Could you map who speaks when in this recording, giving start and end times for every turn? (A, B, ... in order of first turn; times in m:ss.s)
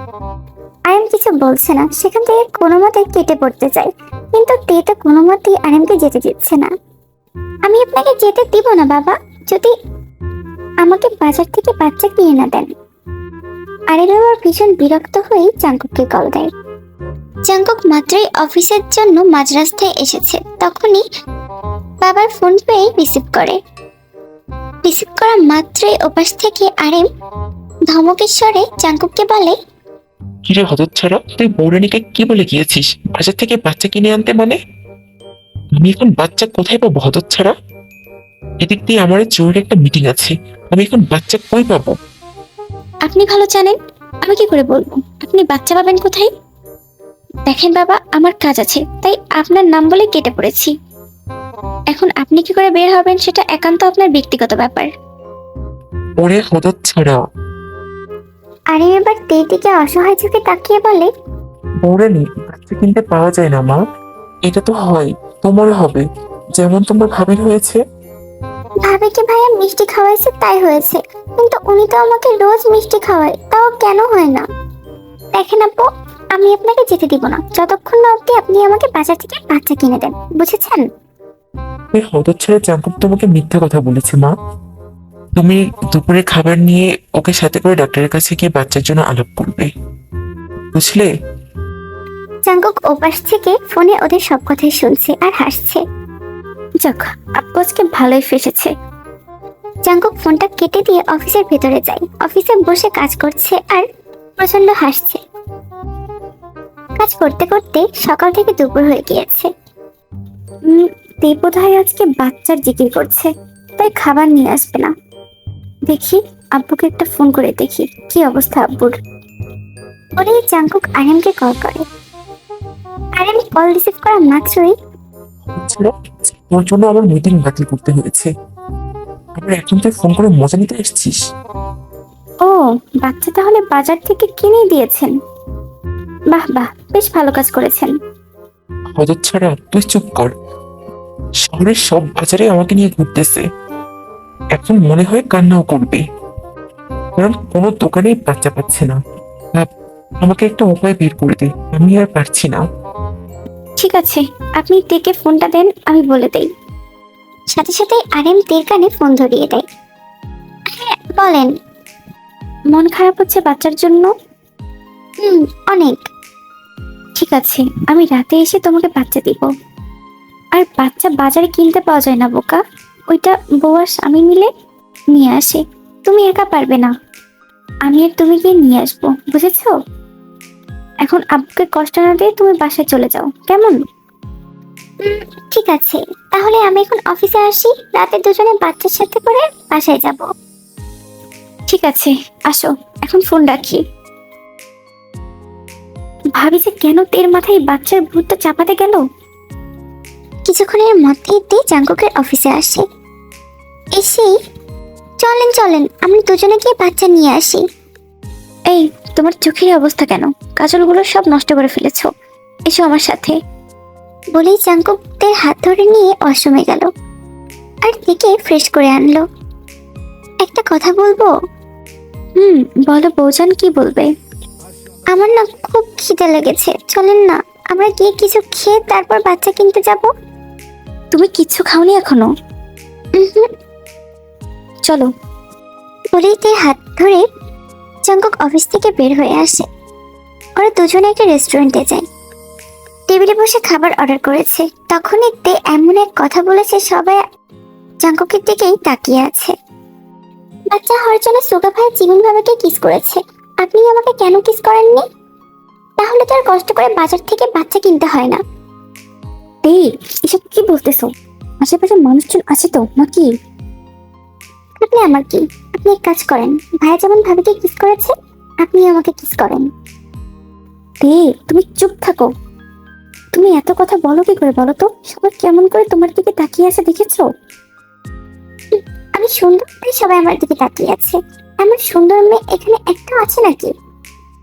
0:00.9-0:06.7 A
0:07.6-0:09.7 A
0:10.8-0:12.7 A
0:13.9-0:16.5 A
0:17.4-0:21.0 A
0:22.0-0:23.6 A
0:24.8-0:27.1 A
0:27.9-0:29.6 A
0:30.5-0:34.6 B
0:35.8-0:37.5 B
0:38.6-0:41.9 B
0:43.0-0:46.3 C
0:47.5-0:50.7 C
0:51.9-0:54.9 C
0:56.2-0:57.2 B
0:58.7-1:01.1 A
1:01.8-1:03.8 B
1:04.5-1:06.0 B
1:06.6-1:07.8 B
1:08.8-1:14.5 A
1:15.3-1:20.8 A
1:21.9-1:24.3 B
1:25.4-1:29.7 B
1:30.7-1:31.1 B
1:32.5-1:35.8 A
1:36.8-1:38.7 C
1:39.8-1:43.8 A
1:44.4-1:45.2 A
1:47.0-1:49.5 A
1:50.7-1:54.9 C
1:55.9-1:58.9 C
2:00.2-2:01.8 A
2:03.2-2:04.7 A
2:05.5-2:08.3 B
2:09.4-2:11.2 B
2:12.4-2:15.1 C
2:16.3-2:17.9 C
2:19.0-2:20.3 B
2:21.5-2:23.4 B
2:24.6-2:26.0 B
2:27.2-2:29.0 B
2:30.2-2:32.6 B
2:33.8-2:36.5 C
2:37.5-2:39.6 A
2:40.7-2:41.5 A
2:42.7-2:44.1 C
2:45.2-2:46.0 A
2:47.2-2:49.5 C
2:50.5-2:54.5 C
2:55.1-2:56.9 C
2:57.8-2:59.7 C
3:01.0-3:03.8 C
3:05.0-3:10.2 A
3:11.7-3:13.8 C
3:16.3-3:19.0 C
3:20.5-3:22.8 A
3:23.9-3:24.3 A
3:25.2-3:27.6 A
3:28.7-3:32.1 C
3:32.7-3:33.4 C
3:34.3-3:36.9 A
3:37.8-3:39.2 A
3:40.4-3:41.3 A
3:42.4-3:44.1 C
3:45.1-3:50.1 A
3:51.1-3:52.3 C
3:53.2-3:53.5 A
3:56.1-3:57.2 A
3:58.1-3:59.7 A
4:00.6-4:02.0 A
4:03.1-4:07.2 A
4:08.0-4:09.5 A
4:10.7-4:15.0 A
4:16.0-4:18.4 A
4:19.6-4:21.1 C
4:21.6-4:23.3 C
4:24.8-4:29.7 A
4:31.0-4:32.3 C
4:33.4-4:37.2 C
4:38.7-4:43.7 A